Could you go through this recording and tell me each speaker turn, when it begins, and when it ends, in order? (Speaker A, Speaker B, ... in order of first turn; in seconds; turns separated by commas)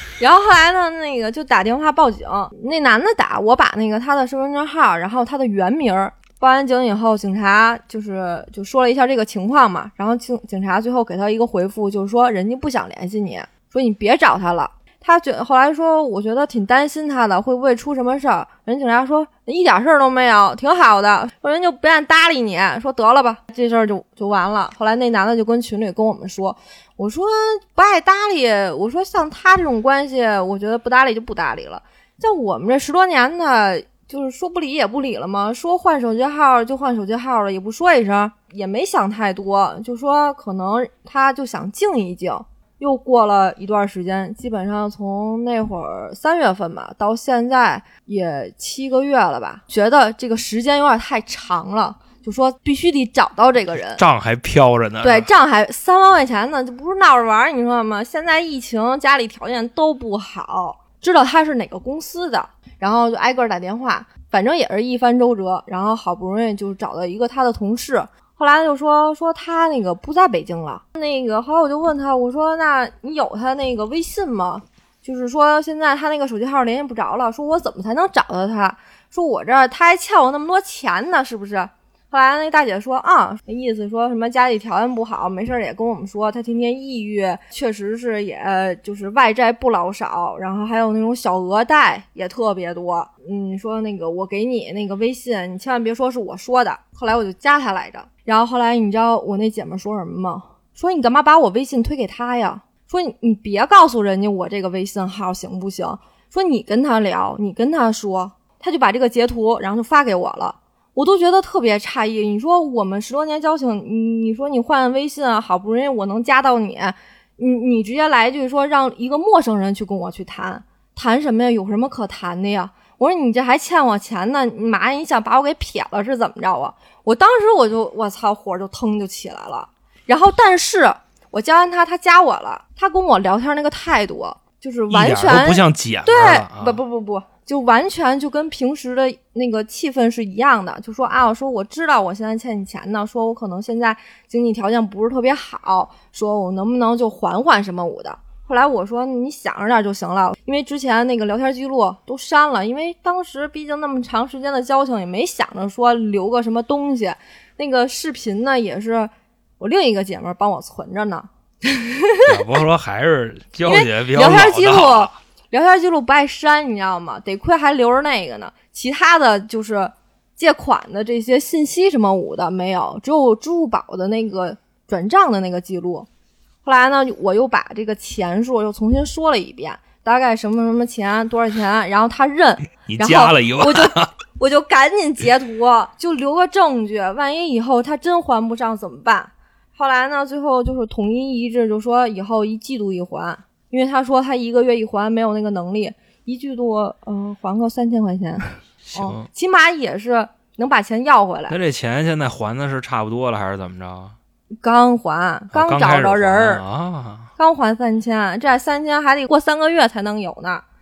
Speaker A: 0.2-54.0, Speaker B: 54.0-55.3, Speaker A: 55.0-162.3, Speaker B: 134.9-136.8, Speaker B: 162.2-165.1, Speaker A: 163.7-176.1, Speaker A: 176.6-201.6, Speaker B: 182.8-184.1, Speaker B: 198.9-199.3, Speaker B: 201.5-204.1, Speaker A: 204.6-206.6, Speaker B: 205.5-207.3, Speaker A: 207.4-210.6